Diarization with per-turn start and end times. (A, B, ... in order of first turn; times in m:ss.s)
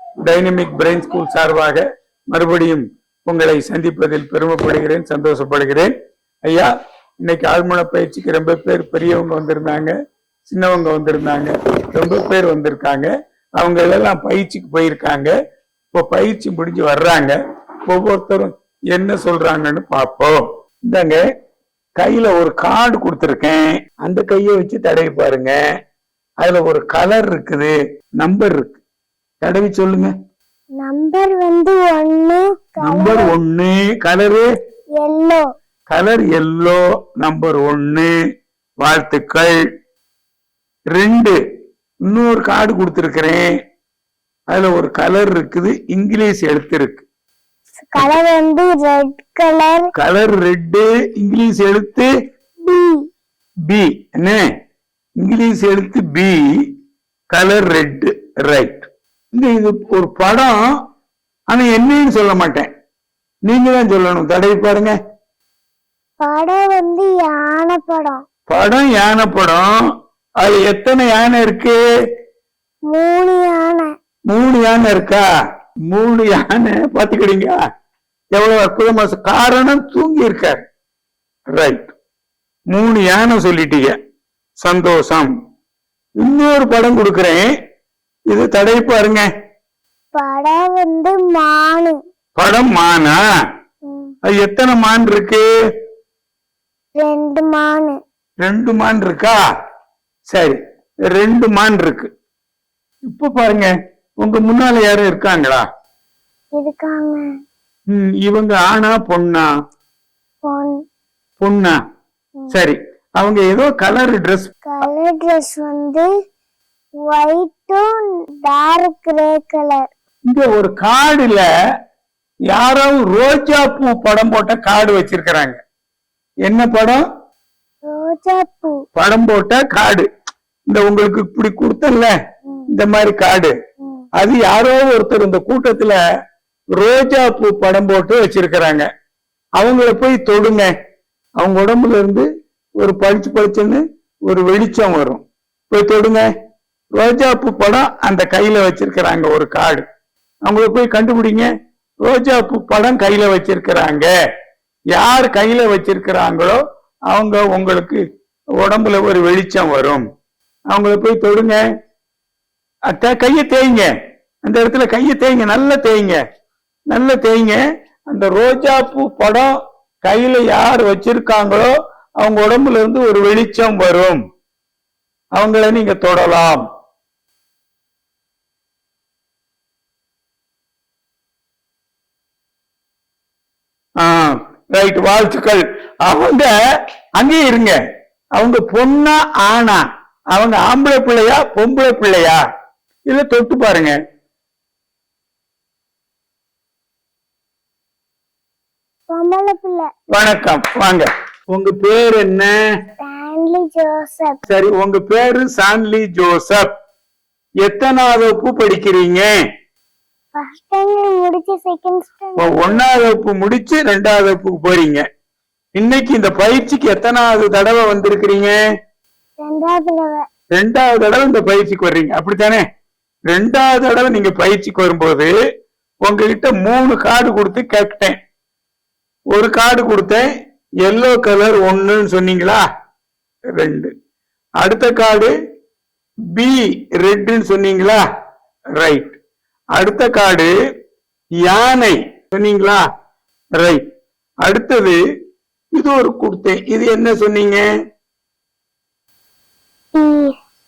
0:00.2-0:05.9 A
0:07.2-0:09.9 A
0:10.5-0:15.3 A
0:15.9-0:17.3 A
0:17.9-0:21.2 A
0:22.0-0:25.6 A
0:26.4-0:28.8 A
0:29.4-0:30.1 A
0:30.8-0:33.3 B
0:32.8-0:34.4 A
0:35.0-0:35.4 B
0:35.9-0:38.1 A
0:38.8-0:39.6 A
0:40.9-0:41.4 A
0:42.1-0:43.4 A
0:44.5-0:47.0 A
0:47.8-0:49.8 B
0:50.0-0:52.1 A
0:52.6-0:53.0 B
0:53.7-0:54.4 A
0:55.2-0:56.4 A
0:57.3-1:00.6 A
1:01.5-1:02.7 A
1:03.5-1:04.9 A
1:06.2-1:08.2 B
1:08.5-1:09.7 A
1:10.4-1:11.8 A
1:12.9-1:13.9 B
1:14.3-1:15.2 A
1:15.9-1:17.6 A
1:18.3-1:20.6 A
1:21.5-1:21.9 A
1:22.7-1:23.9 A
1:24.6-1:25.3 A
1:26.2-1:27.5 A
1:28.3-1:29.3 A
1:30.2-1:32.0 B
1:32.4-1:33.2 A
1:33.8-1:34.1 B
1:34.2-1:35.5 A
1:37.0-1:38.0 B
1:38.4-1:39.4 A
1:40.3-1:40.6 A
1:41.1-1:42.1 A
1:43.1-1:45.6 A
1:46.6-1:47.2 B
1:47.9-1:49.5 A
1:50.4-1:50.8 B
1:51.4-1:51.8 A
1:52.5-1:54.5 A
1:54.6-1:56.1 B
1:57.1-1:59.9 B
2:00.3-2:01.5 A
2:02.5-2:05.6 A
2:06.5-2:07.0 A
2:07.8-2:08.8 B
2:08.9-2:10.1 A
2:10.7-2:12.1 A
2:12.7-2:13.5 A
2:14.2-2:16.0 A
2:16.8-2:18.9 A
2:19.6-2:20.7 A
2:21.4-2:22.3 A
2:22.8-2:26.3 A
2:26.9-2:29.8 A
2:30.4-2:31.5 A
2:32.0-2:34.1 A
2:34.9-2:36.6 A
2:37.1-2:38.0 A
2:38.6-2:40.0 A
2:40.7-2:41.6 A
2:42.9-2:43.9 A
2:44.4-2:46.2 A
2:46.9-2:54.2 A
2:55.3-2:56.6 A
3:04.0-3:06.5 A
3:07.2-3:07.8 A
3:08.3-3:09.8 A
3:10.3-3:12.4 A
3:13.1-3:14.0 A
3:19.1-3:19.9 B
3:20.1-3:22.5 A
3:23.0-3:24.4 B
3:24.5-3:26.7 A
3:27.6-3:29.3 A
3:30.3-3:32.8 B
3:32.4-3:35.0 A
3:35.8-3:38.6 A
3:39.4-3:40.2 B
3:40.5-3:42.6 A
3:43.3-3:45.3 A
3:46.0-3:48.2 A
3:49.3-3:50.2 A
3:50.8-3:52.6 A
3:53.6-3:53.9 A
3:54.6-3:55.3 A
3:56.3-3:58.0 A
3:58.8-3:59.2 A
3:59.7-4:00.5 A
4:01.4-4:02.8 A
4:03.6-4:03.8 A
4:04.4-4:05.0 A
4:05.7-4:07.6 A
4:09.9-4:10.3 B